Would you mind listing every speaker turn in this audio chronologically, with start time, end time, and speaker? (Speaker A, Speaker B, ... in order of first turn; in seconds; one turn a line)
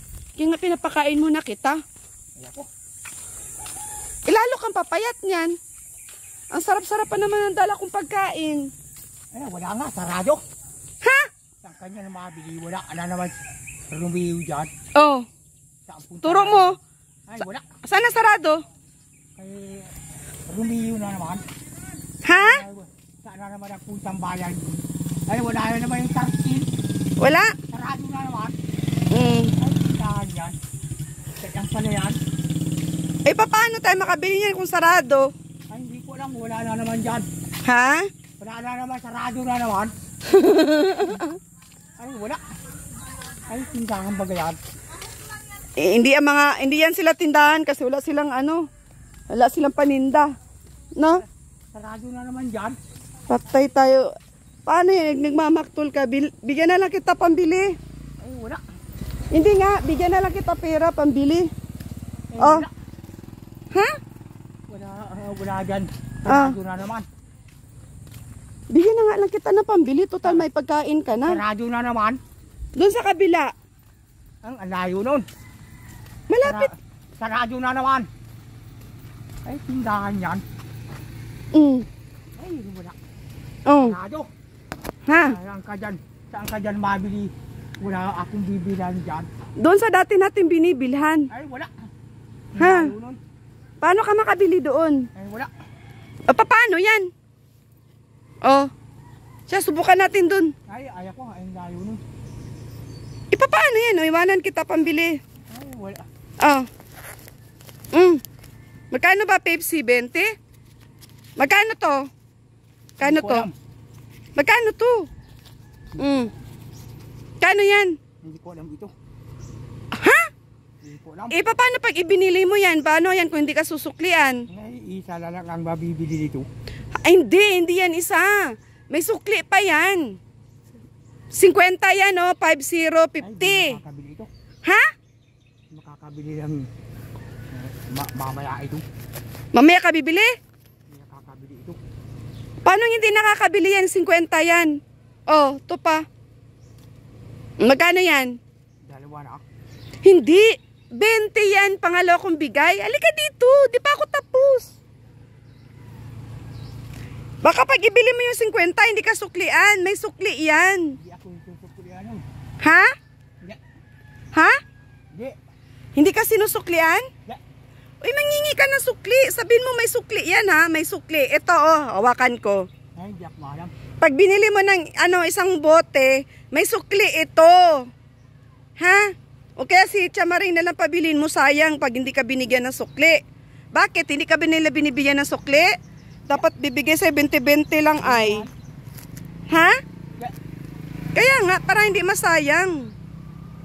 Speaker A: 0.4-1.8
Speaker B: 2.4-2.7
Speaker A: 4.3-5.5
Speaker A: 6.5-8.7
Speaker B: 9.3-10.4
Speaker A: 11.0-11.3
Speaker B: 11.6-14.7
Speaker A: 14.9-15.3
Speaker B: 15.8-17.7
Speaker A: 16.2-16.8
Speaker A: 17.8-18.6
Speaker B: 19.4-19.9
Speaker B: 20.5-21.4
Speaker A: 22.2-22.6
Speaker B: 22.3-26.7
Speaker A: 27.2-27.6
Speaker B: 27.7-28.6
Speaker A: 29.1-29.5
Speaker B: 29.6-30.6
Speaker B: 31.4-32.2
Speaker A: 33.2-35.3
Speaker B: 35.7-37.3
Speaker A: 37.6-38.1
Speaker B: 38.4-39.9
Speaker A: 40.3-41.4
Speaker B: 42.0-42.4
Speaker B: 43.5-44.6
Speaker A: 45.8-48.7
Speaker A: 49.3-50.3
Speaker A: 51.0-51.2
Speaker B: 51.7-52.8
Speaker A: 53.3-54.1
Speaker A: 54.7-57.8
Speaker B: 58.2-58.6
Speaker A: 59.3-61.5
Speaker B: 62.3-62.7
Speaker A: 62.4-62.7
Speaker A: 63.7-64.0
Speaker B: 64.7-67.1
Speaker A: 66.3-66.6
Speaker A: 68.7-71.4
Speaker B: 71.3-72.2
Speaker A: 72.8-73.5
Speaker B: 74.4-75.2
Speaker A: 76.3-76.7
Speaker B: 76.4-78.1
Speaker B: 79.4-80.4
Speaker A: 81.5-81.9
Speaker B: 82.4-83.0
Speaker A: 83.7-84.0
Speaker B: 83.8-84.3
Speaker A: 85.1-85.4
Speaker B: 85.2-89.3
Speaker A: 89.6-91.3
Speaker B: 91.3-91.7
Speaker B: 92.5-93.2
Speaker A: 92.6-92.9
Speaker A: 93.8-95.1
Speaker B: 95.2-95.5
Speaker A: 96.3-97.1
Speaker A: 98.4-98.7
Speaker A: 99.5-100.5
Speaker B: 100.7-102.0
Speaker A: 103.3-105.2
Speaker B: 105.5-106.1
Speaker A: 106.4-106.7
Speaker A: 107.9-108.2
Speaker A: 108.9-110.3
Speaker A: 111.4-112.1
Speaker A: 113.0-113.5
Speaker B: 113.0-113.5
Speaker A: 114.3-115.1
Speaker A: 116.0-116.3
Speaker A: 117.4-118.0
Speaker B: 118.2-118.9
Speaker A: 119.9-120.3
Speaker B: 120.8-121.4
Speaker A: 121.3-124.4
Speaker B: 124.5-126.5
Speaker A: 127.0-130.2
Speaker A: 131.3-133.8
Speaker B: 133.2-134.3
Speaker A: 134.6-134.9
Speaker B: 135.7-136.7
Speaker B: 137.5-138.8
Speaker A: 139.5-140.3
Speaker B: 140.9-141.8
Speaker A: 142.7-146.1
Speaker A: 147.6-148.3
Speaker B: 148.8-149.4
Speaker A: 150.0-154.7
Speaker A: 157.4-160.9
Speaker B: 160.9-162.2
Speaker A: 162.6-162.9
Speaker A: 164.3-164.6
Speaker A: 165.9-167.1
Speaker A: 168.0-172.7
Speaker B: 172.9-173.7
Speaker A: 174.0-177.9
Speaker A: 178.8-183.2
Speaker A: 183.7-185.8
Speaker A: 186.3-188.5
Speaker B: 188.0-188.5
Speaker A: 189.5-189.8
Speaker A: 191.1-192.9